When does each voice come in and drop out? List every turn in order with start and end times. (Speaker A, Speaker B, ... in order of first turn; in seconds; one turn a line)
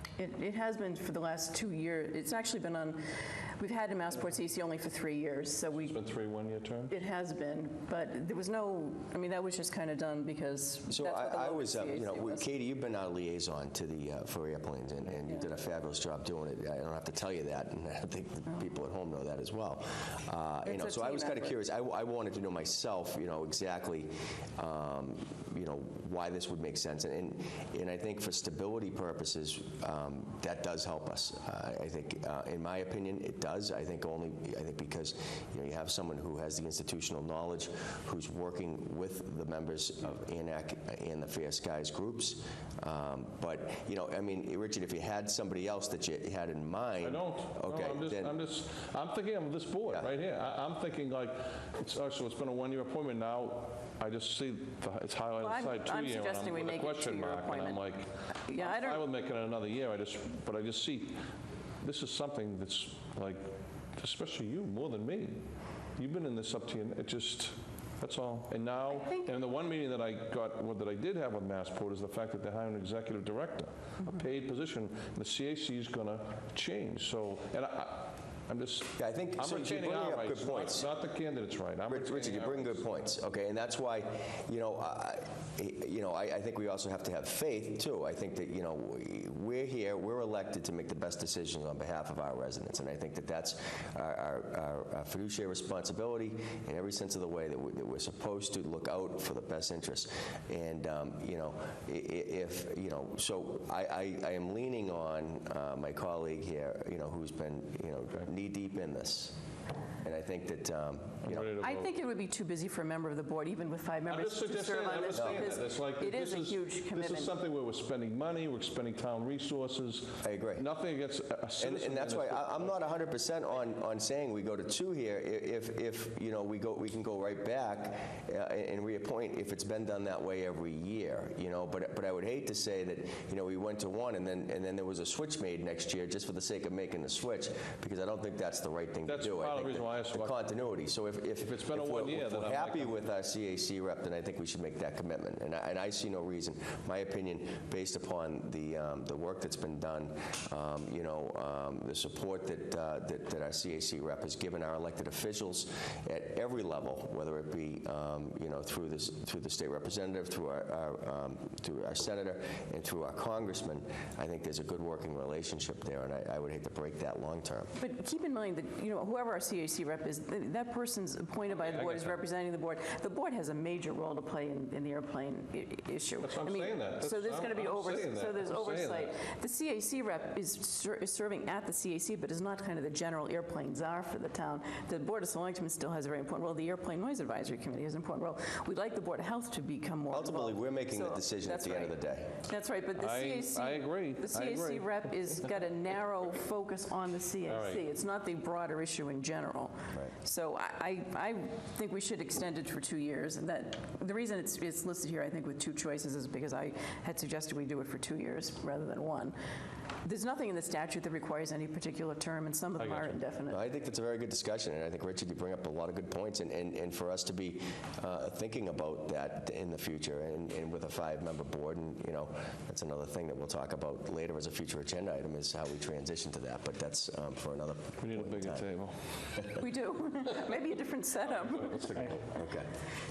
Speaker A: 0.2-6.0
Speaker B: 5.8-6.9
Speaker A: 6.9-12.5
Speaker C: 10.9-48.4
Speaker A: 20.6-21.5
Speaker B: 47.0-61.2
Speaker A: 55.4-57.8
Speaker A: 58.5-59.1
Speaker B: 61.8-65.5
Speaker B: 66.0-82.8
Speaker C: 79.0-80.9
Speaker C: 81.9-109.3
Speaker C: 110.0-111.5
Speaker B: 111.2-111.9
Speaker A: 111.6-117.3
Speaker B: 114.1-122.9
Speaker C: 115.1-115.5
Speaker C: 120.2-120.7
Speaker C: 121.6-167.7
Speaker B: 139.1-140.4
Speaker B: 141.4-143.0
Speaker A: 167.8-209.4
Speaker B: 171.5-172.2
Speaker B: 176.2-179.1
Speaker C: 190.1-192.4
Speaker B: 193.0-195.5
Speaker B: 197.4-197.8
Speaker A: 210.0-213.6
Speaker B: 212.8-213.2
Speaker C: 213.5-228.7
Speaker B: 228.0-229.0
Speaker A: 229.6-231.9
Speaker B: 231.5-232.2
Speaker C: 232.2-232.7